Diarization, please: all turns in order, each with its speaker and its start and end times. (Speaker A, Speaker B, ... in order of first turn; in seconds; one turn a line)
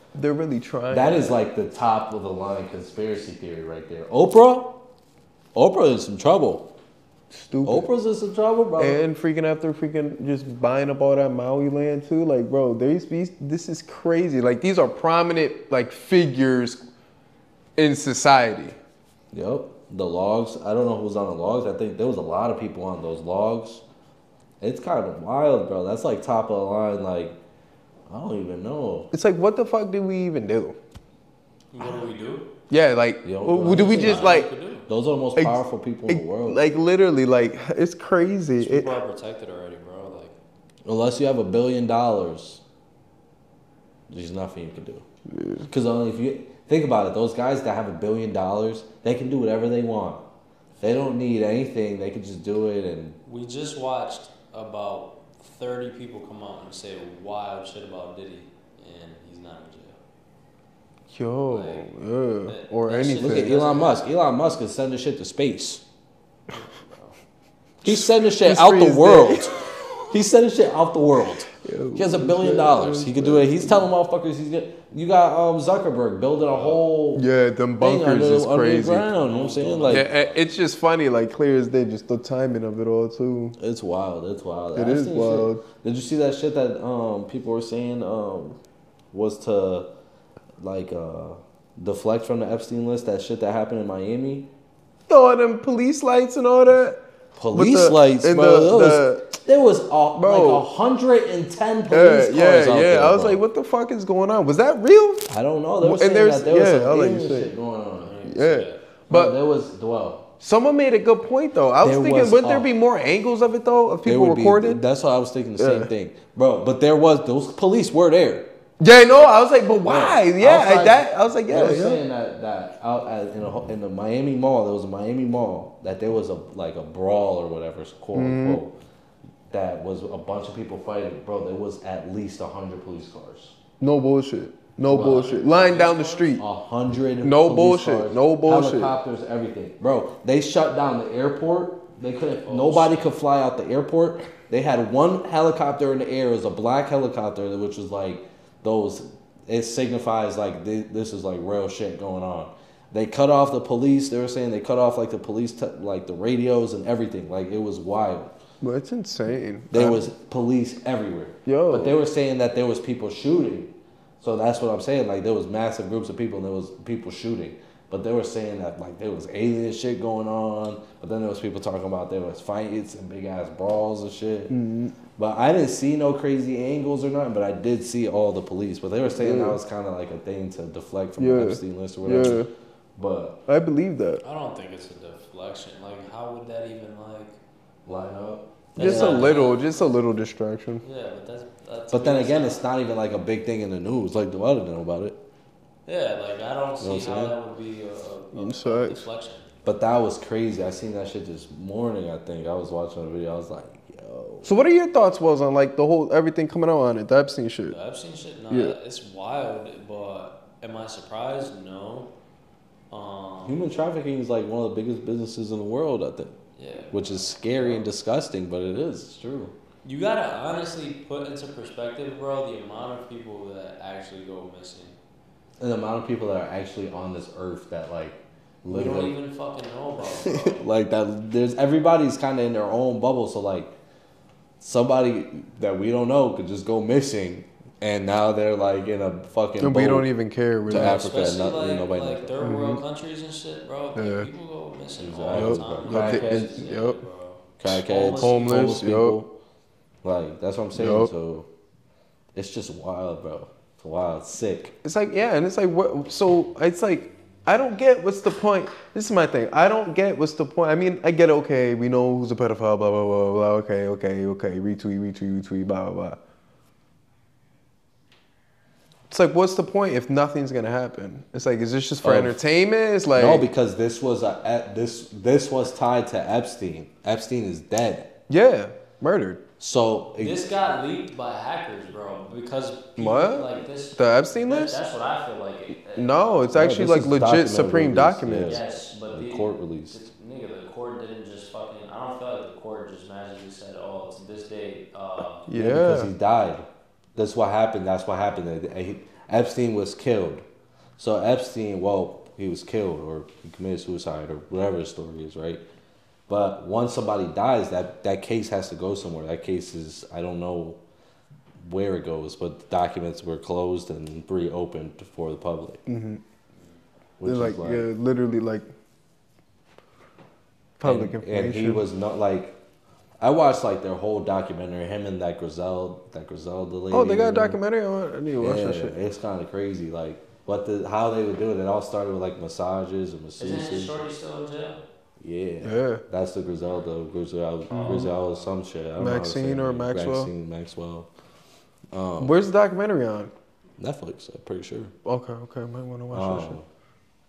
Speaker A: 0.1-1.4
Speaker B: 0.9-4.8
Speaker B: 5.5-6.7
Speaker A: 7.3-7.9
Speaker B: 7.6-9.0
Speaker A: 8.8-16.8
Speaker A: 17.8-18.8
Speaker B: 19.3-23.8
Speaker B: 24.6-27.4
Speaker B: 28.1-29.1
Speaker A: 29.1-30.8
Speaker C: 31.7-32.5
Speaker A: 31.8-32.0
Speaker A: 32.7-34.5
Speaker B: 33.2-36.6
Speaker C: 33.6-34.9
Speaker A: 35.4-39.0
Speaker C: 38.6-40.4
Speaker B: 40.8-42.6
Speaker B: 44.1-45.0
Speaker A: 45.3-45.7
Speaker B: 45.7-50.2
Speaker B: 50.8-53.2
Speaker C: 53.2-60.0
Speaker A: 61.1-63.5
Speaker C: 61.5-61.9
Speaker C: 62.5-64.1
Speaker B: 63.2-65.8
Speaker C: 66.5-67.1
Speaker B: 67.8-77.2
Speaker A: 67.8-69.9
Speaker A: 71.6-73.9
Speaker C: 76.5-76.8
Speaker A: 77.1-79.1
Speaker B: 77.8-80.1
Speaker C: 79.1-80.5
Speaker A: 79.9-83.6
Speaker B: 83.6-88.6
Speaker A: 84.7-85.6
Speaker B: 89.1-89.9
Speaker B: 90.6-94.5
Speaker A: 95.1-97.0
Speaker B: 97.3-103.4
Speaker A: 97.5-99.3
Speaker A: 100.1-100.7
Speaker A: 101.9-107.5
Speaker B: 105.3-108.2
Speaker C: 108.0-108.8
Speaker A: 108.2-109.3
Speaker B: 109.1-110.2
Speaker A: 110.4-114.8
Speaker B: 111.8-112.7
Speaker B: 114.0-118.5
Speaker A: 115.6-115.9
Speaker A: 118.8-122.0
Speaker B: 119.8-128.7
Speaker A: 128.1-128.6
Speaker B: 129.5-133.6
Speaker A: 133.8-136.4
Speaker B: 134.9-135.4
Speaker C: 134.9-136.4
Speaker B: 136.4-158.3
Speaker A: 137.2-138.9
Speaker C: 142.4-143.2
Speaker A: 158.6-160.1
Speaker B: 159.7-174.5
Speaker A: 161.4-162.0
Speaker A: 174.5-174.9
Speaker B: 175.2-182.4
Speaker A: 179.1-179.6
Speaker A: 181.2-182.5
Speaker B: 182.9-183.4
Speaker A: 183.5-184.2
Speaker C: 184.2-187.4
Speaker B: 187.8-189.4
Speaker C: 188.8-189.8
Speaker A: 188.8-190.8
Speaker C: 190.8-192.6
Speaker B: 191.9-195.2
Speaker C: 195.8-199.5
Speaker B: 196.8-197.3
Speaker A: 198.3-199.0
Speaker B: 199.6-204.5
Speaker A: 204.4-207.8
Speaker C: 207.7-212.1
Speaker A: 208.5-208.8
Speaker C: 212.9-213.6
Speaker B: 213.4-216.3
Speaker C: 216.6-217.8
Speaker B: 216.9-219.5
Speaker C: 219.8-224.9
Speaker B: 225.6-229.1
Speaker C: 228.7-230.6
Speaker B: 230.2-233.7
Speaker B: 234.6-240.1
Speaker A: 239.6-241.1
Speaker B: 240.7-242.3
Speaker C: 240.7-248.8
Speaker A: 242.4-242.8
Speaker A: 243.9-244.3
Speaker B: 245.0-246.5
Speaker A: 245.3-247.0
Speaker B: 247.6-249.3
Speaker A: 248.2-249.2
Speaker B: 250.0-251.5
Speaker A: 250.7-251.1
Speaker B: 252.3-254.8
Speaker A: 254.8-266.2
Speaker A: 269.1-273.5
Speaker B: 272.0-272.4
Speaker B: 273.1-278.1
Speaker A: 278.3-279.4
Speaker B: 279.6-280.5
Speaker C: 280.2-286.5
Speaker A: 283.0-284.8
Speaker A: 285.9-288.6
Speaker B: 286.5-290.0
Speaker C: 288.4-295.4
Speaker A: 295.5-296.1
Speaker B: 295.5-300.4
Speaker B: 301.0-305.6
Speaker B: 306.3-310.8
Speaker B: 311.6-315.8
Speaker A: 315.9-316.2
Speaker B: 317.2-317.9
Speaker A: 317.2-318.7
Speaker A: 320.8-321.8
Speaker B: 320.8-322.6
Speaker B: 323.2-327.6
Speaker A: 326.9-329.0
Speaker B: 328.4-334.0
Speaker C: 333.4-334.8
Speaker B: 335.2-341.1
Speaker A: 335.6-336.0
Speaker A: 337.7-338.1
Speaker C: 337.7-338.1
Speaker A: 339.0-340.3
Speaker B: 341.9-342.4
Speaker A: 342.2-343.3
Speaker B: 343.8-344.9
Speaker A: 345.0-346.6
Speaker B: 346.1-346.6